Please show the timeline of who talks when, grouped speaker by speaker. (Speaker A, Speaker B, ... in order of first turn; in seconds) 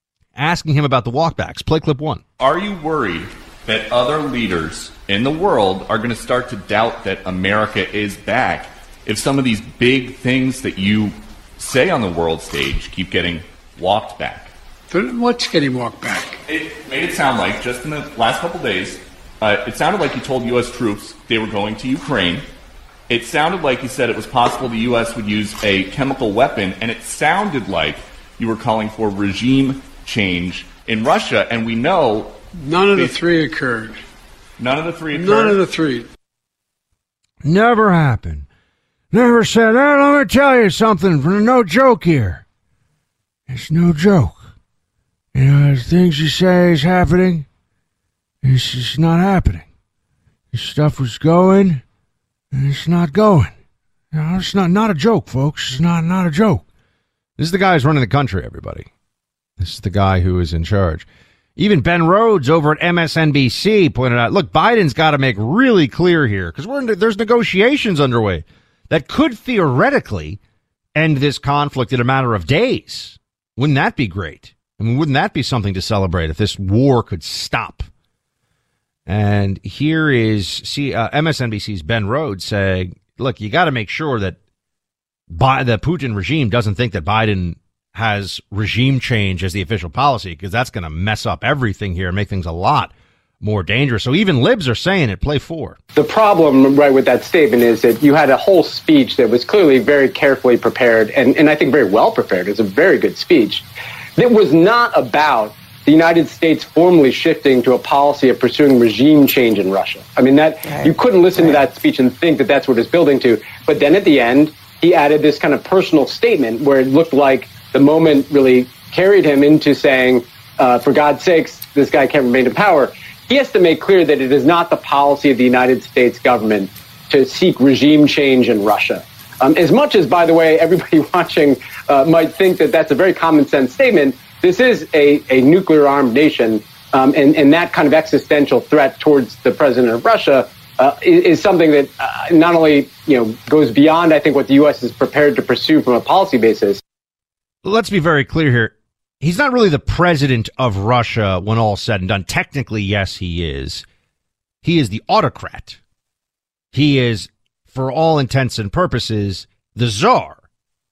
Speaker A: 0.3-2.2, 37.4-38.5, 39.1-42.4, 43.5-44.4, 45.3-47.5, 48.4-49.6, 50.5-51.8, 52.5-53.5, 54.1-56.6, 57.4-58.9, 59.6-61.0, 61.6-70.4, 71.0-77.9, 79.0-84.4, 85.3-95.8, 147.6-153.8, 154.6-155.8, 156.7-160.4
Speaker B: 2.4-14.5, 16.5-22.4, 23.1-32.4, 32.9-33.2, 34.6-35.6
Speaker C: 14.9-16.4, 32.6-34.0, 35.1-36.1
Speaker D: 96.0-103.6, 104.2-146.8